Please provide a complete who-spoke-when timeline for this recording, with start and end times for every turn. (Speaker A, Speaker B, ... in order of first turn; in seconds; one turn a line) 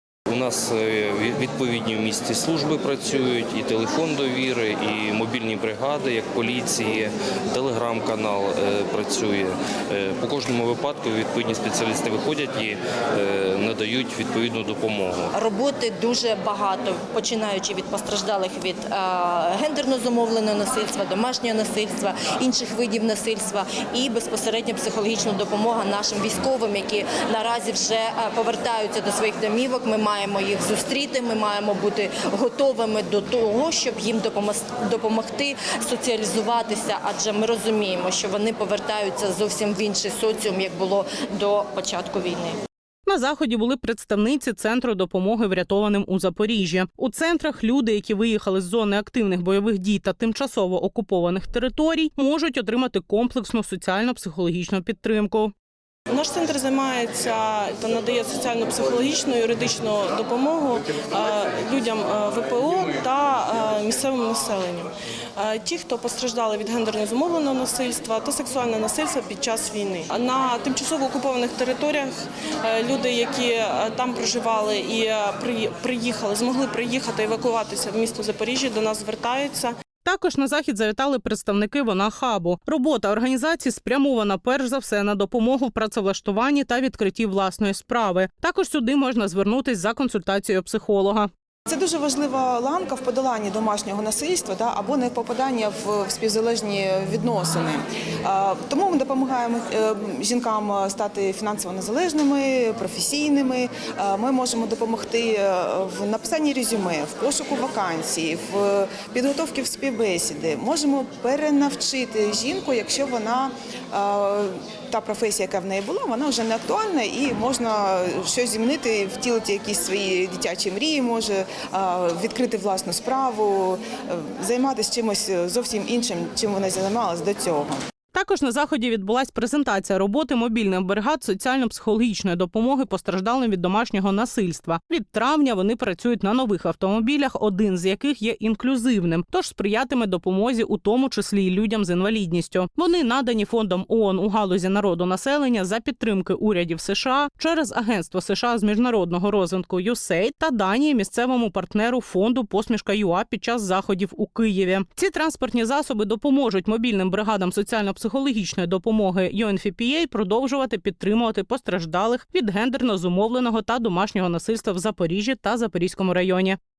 Speaker A: 0.3-15.4
Speaker B: 15.3-42.6
Speaker C: 43.0-55.5
Speaker D: 56.1-72.1
Speaker D: 72.6-79.7
Speaker C: 80.0-91.3
Speaker E: 91.7-127.8
Speaker C: 128.1-166.6